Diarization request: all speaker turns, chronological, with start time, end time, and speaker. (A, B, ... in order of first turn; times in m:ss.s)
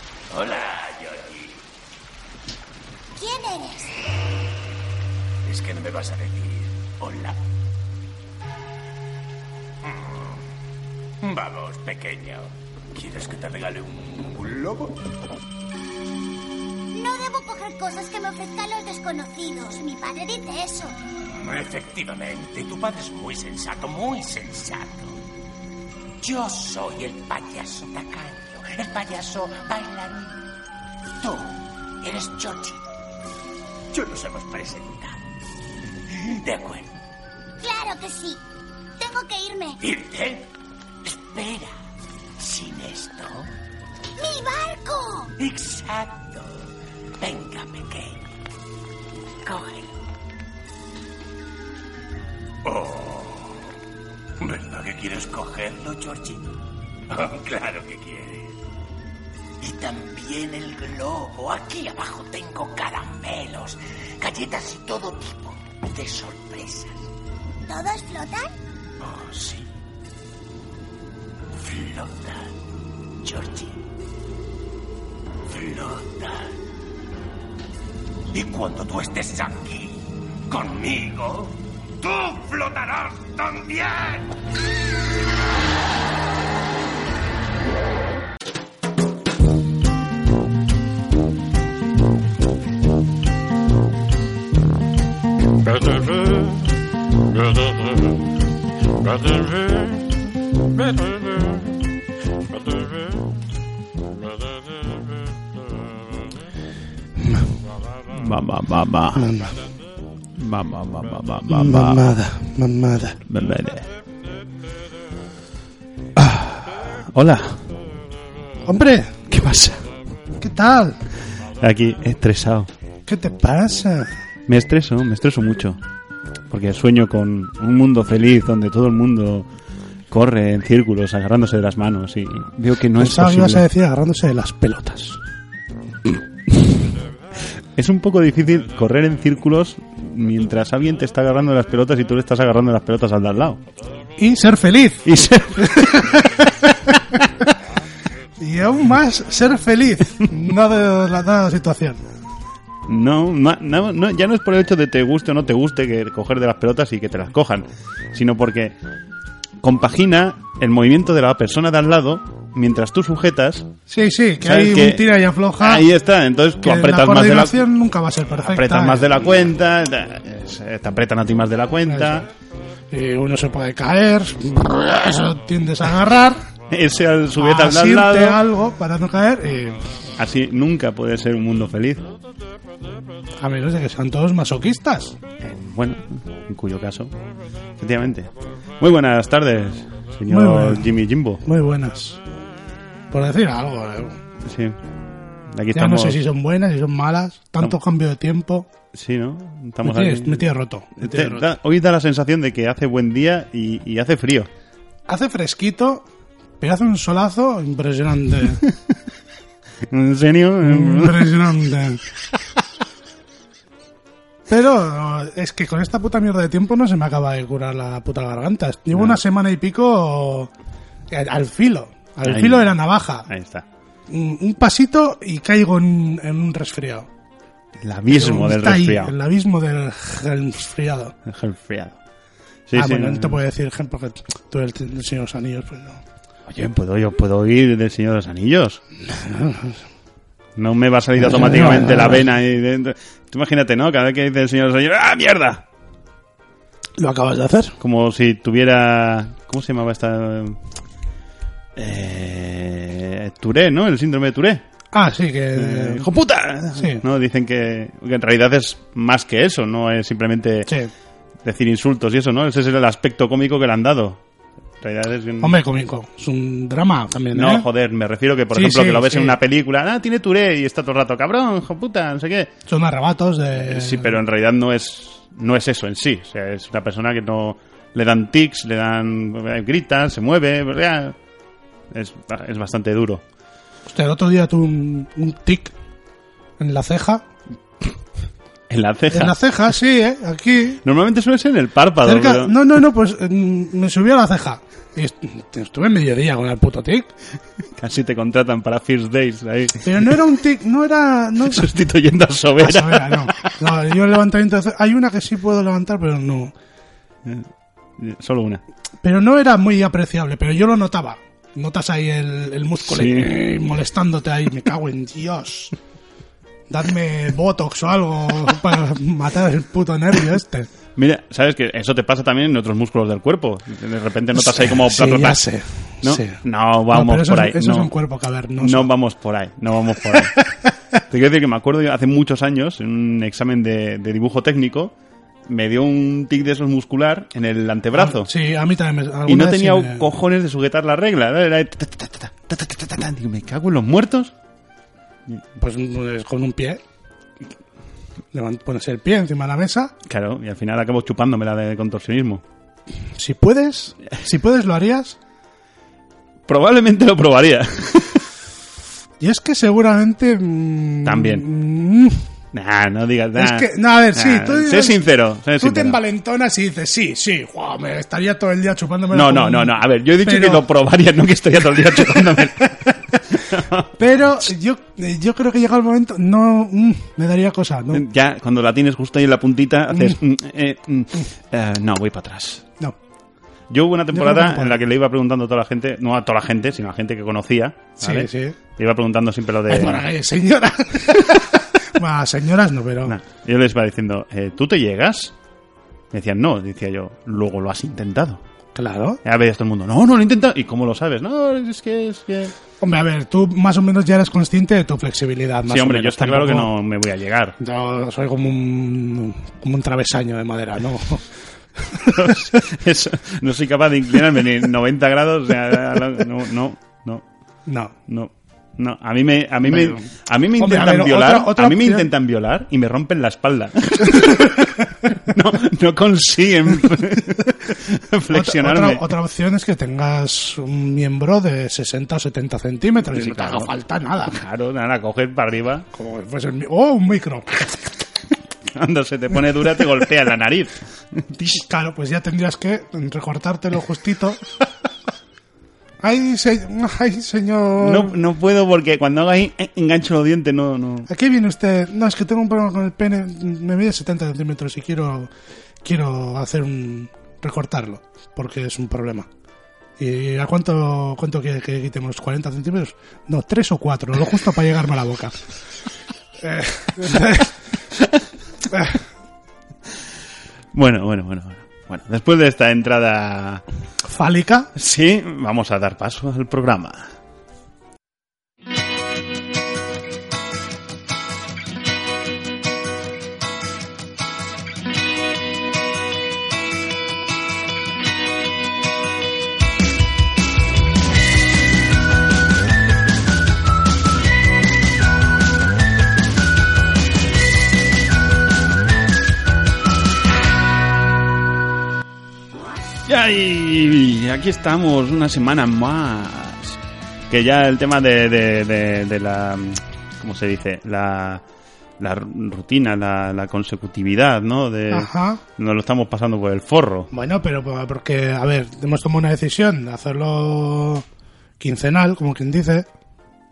0:00.3-0:01.6 A
0:03.2-0:04.0 B
0:05.4-0:07.4 A
0:09.8-0:10.4 A
0:11.2-0:15.0 A
0:16.9-0:20.9 B
0:21.3-0:25.2 A
0:26.2-0:30.4 A
0:31.2-0:32.8 A
0:33.9-0:35.2 A
0:36.0-0:37.0 A
0:37.6-0:38.4 B
0:39.0-0:39.8 B
0:39.8-0:40.5 A
0:41.0-0:41.7 A
0:42.4-0:43.5 A
0:44.2-0:45.3 B
0:45.4-0:48.3 A
0:49.4-0:50.0 A
0:52.6-0:53.7 A
0:54.4-0:56.6 A
0:57.1-0:58.6 A
0:59.6-1:07.1 A
1:07.6-1:08.5 B
1:09.0-1:09.7 A
1:11.5-1:12.6 A
1:13.2-1:13.8 A
1:15.4-1:16.6 A
1:18.3-1:24.3 A
1:35.8-1:36.8 A
1:37.4-1:38.0 A
1:39.0-1:40.0 A
1:40.9-1:41.6 A
1:47.2-1:47.5 C
1:48.1-1:49.3 D
1:49.2-1:49.6 C
1:50.4-1:52.1 D
1:51.5-1:53.2 C
1:53.3-1:53.9 D
1:56.2-1:57.6 D
1:58.6-1:59.2 C
1:59.3-1:59.8 D
2:00.4-2:01.0 C
2:01.6-2:02.7 D
2:03.1-2:04.1 C
2:04.5-2:05.8 D
2:06.5-2:09.5 D
2:10.1-2:13.6 D
2:13.0-2:15.2 C
2:17.7-2:23.6 D
2:24.2-2:27.2 C
2:25.0-2:26.3 D
2:28.4-2:32.0 C
2:32.8-2:38.7 D
2:39.6-2:43.7 D
2:43.9-2:45.8 C
2:44.4-2:47.6 D
2:46.6-2:49.1 C
2:48.4-2:52.3 D
2:51.8-2:52.3 C
2:52.9-2:56.4 C
2:56.7-2:58.4 D
2:57.4-2:59.8 C
3:00.2-3:02.1 D
3:03.4-3:05.2 C
3:05.4-3:07.1 D
3:07.8-3:11.4 D
3:10.3-3:12.2 C
3:13.1-3:14.2 C
3:14.4-3:14.8 D
3:15.5-3:16.2 D
3:15.7-3:18.7 C
3:18.9-3:24.5 D
3:19.8-3:21.5 C
3:25.1-3:26.0 C
3:26.6-3:28.6 C
3:28.4-3:28.8 D
3:29.8-3:31.5 D
3:30.6-3:32.0 C
3:34.5-3:40.5 C
3:38.9-3:39.2 D
3:41.1-3:43.3 C
3:42.2-3:42.7 D
3:43.3-3:43.6 D
3:44.1-3:47.1 C
3:47.8-3:49.1 D
3:48.1-3:51.1 C
3:51.2-3:52.0 D
3:52.7-3:53.4 D
3:52.8-3:56.0 C
3:56.5-3:58.8 D
3:59.1-3:59.8 C
4:00.6-4:05.6 D
4:01.2-4:02.2 C
4:07.0-4:07.8 C
4:07.8-4:10.6 D
4:11.8-4:14.6 D
4:14.9-4:16.1 C
4:15.5-4:20.7 D
4:16.8-4:17.0 C
4:21.4-4:24.2 D
4:24.8-4:25.6 D
4:25.4-4:27.7 C
4:27.3-4:32.5 D
4:28.5-4:29.4 C
4:32.7-4:34.2 C
4:33.6-4:41.1 D
4:41.9-4:43.2 D
4:43.8-4:45.7 C
4:46.6-4:47.2 C
4:48.7-4:49.4 D
4:49.1-4:50.8 C
4:50.8-4:52.6 D
4:52.0-4:57.1 C
4:57.8-5:00.2 D
4:59.8-5:01.7 C
5:01.4-5:03.5 D
5:02.6-5:06.5 C
5:07.2-5:08.6 D
5:09.0-5:15.7 C
5:12.8-5:13.4 D
5:16.7-5:20.7 C
5:21.0-5:25.4 D
5:24.3-5:28.9 C
5:26.0-5:27.9 D
5:28.6-5:30.3 D
5:30.1-5:30.7 C
5:31.1-5:34.9 D
5:35.4-5:38.3 D
5:37.9-5:40.1 C
5:39.2-5:44.3 D
5:45.6-5:46.8 C
5:48.3-5:49.9 C
5:50.0-5:52.4 D
5:53.2-5:55.2 C
5:56.5-5:58.3 D
5:59.2-6:02.2 C
6:01.0-6:01.4 D
6:02.5-6:06.0 D
6:03.4-6:05.0 C
6:05.6-6:10.6 C
6:09.1-6:14.4 D
6:11.7-6:18.0 C
6:17.9-6:22.6 D
6:19.9-6:20.2 C
6:23.7-6:30.0 D
6:24.1-6:24.8 C
6:28.0-6:28.6 C
6:29.7-6:33.2 C
6:33.0-6:35.3 D
6:36.1-6:38.4 D
6:38.7-6:39.2 C
6:39.2-6:42.5 D
6:42.8-6:46.7 C
6:45.7-6:47.5 D
6:47.6-6:51.2 C
6:51.8-6:52.3 C
6:52.0-6:57.2 D
6:57.7-6:57.9 C
6:58.1-7:09.0 D
6:59.7-7:00.0 C
7:00.6-7:02.1 C
7:08.3-7:14.4 C
7:13.1-7:13.7 D
7:14.3-7:15.8 D
7:15.9-7:17.8 C
7:18.7-7:21.6 D
7:21.6-7:24.4 C
7:26.0-7:28.1 C
7:27.8-7:31.1 D
7:31.1-7:35.3 C
7:35.8-7:39.3 C
7:40.0-7:45.4 C
7:46.4-7:47.5 C
7:48.7-7:49.0 C
7:50.7-7:53.6 D
7:54.0-7:54.7 C
7:54.7-7:57.1 D
8:23.0-8:31.4 D
8:32.0-8:37.1 D
8:34.9-8:35.4 C
8:37.1-8:41.0 C
8:41.6-8:42.9 C